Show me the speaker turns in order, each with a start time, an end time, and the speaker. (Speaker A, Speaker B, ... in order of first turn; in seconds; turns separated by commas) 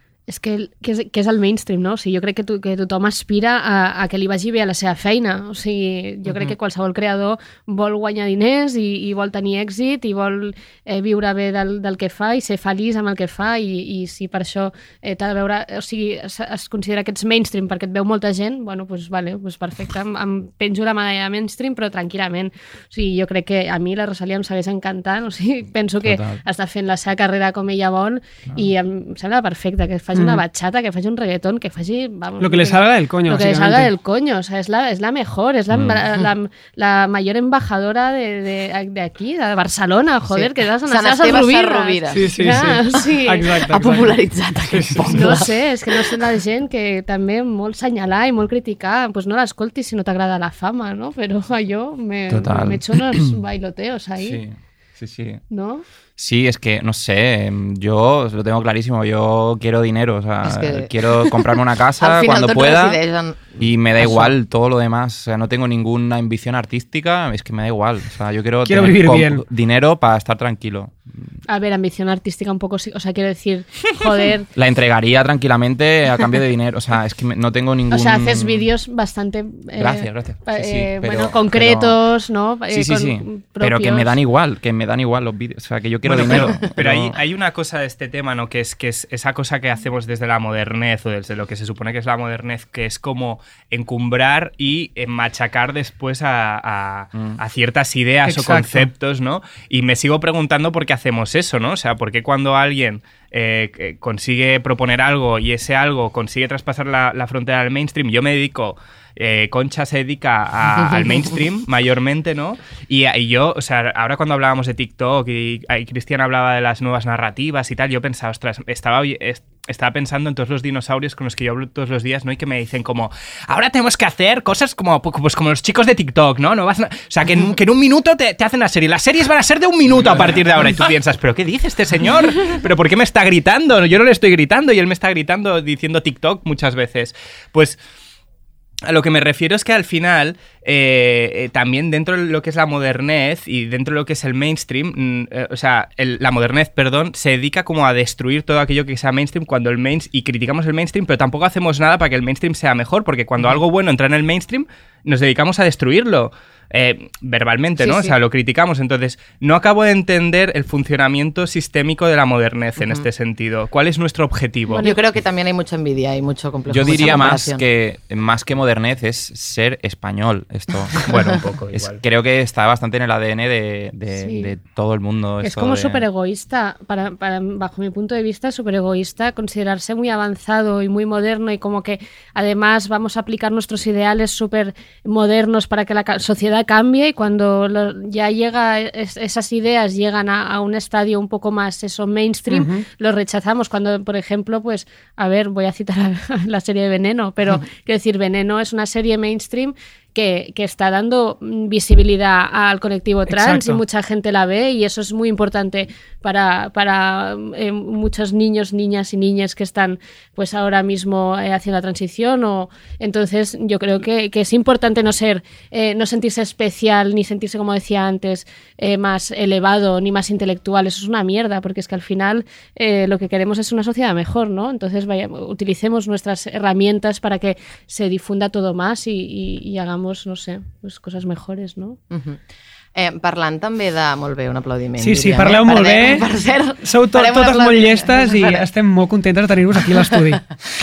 Speaker A: 0.3-43.5, Speaker B: 26.0-26.4, Speaker C: 30.1-30.4, Speaker C: 32.4-33.9, Speaker B: 35.7-36.0, Speaker D: 40.3-42.3, Speaker C: 42.1-44.1, Speaker D: 43.6-46.2, Speaker C: 44.7-45.4, Speaker A: 45.1-54.4, Speaker B: 52.3-53.3, Speaker B: 54.2-55.4, Speaker A: 55.5-55.8, Speaker B: 56.2-63.0, Speaker D: 60.4-64.1, Speaker B: 63.6-71.2, Speaker C: 68.6-69.4, Speaker A: 71.5-74.5, Speaker B: 74.5-78.7, Speaker A: 77.9-84.2, Speaker B: 79.8-82.0, Speaker B: 82.7-87.1, Speaker E: 86.0-137.8, Speaker D: 86.3-86.6, Speaker C: 98.2-98.9, Speaker D: 110.8-111.3, Speaker E: 138.8-164.9, Speaker D: 157.8-158.2, Speaker D: 162.8-163.1, Speaker A: 164.7-165.0, Speaker D: 164.8-167.6, Speaker B: 166.7-171.1, Speaker D: 171.0-171.2, Speaker E: 171.1-172.0, Speaker B: 171.7-176.0, Speaker A: 174.1-174.5, Speaker A: 175.4-232.0, Speaker C: 192.5-192.8, Speaker C: 203.3-203.8, Speaker D: 232.1-232.4, Speaker D: 232.9-238.6, Speaker C: 235.0-236.3, Speaker C: 236.8-240.4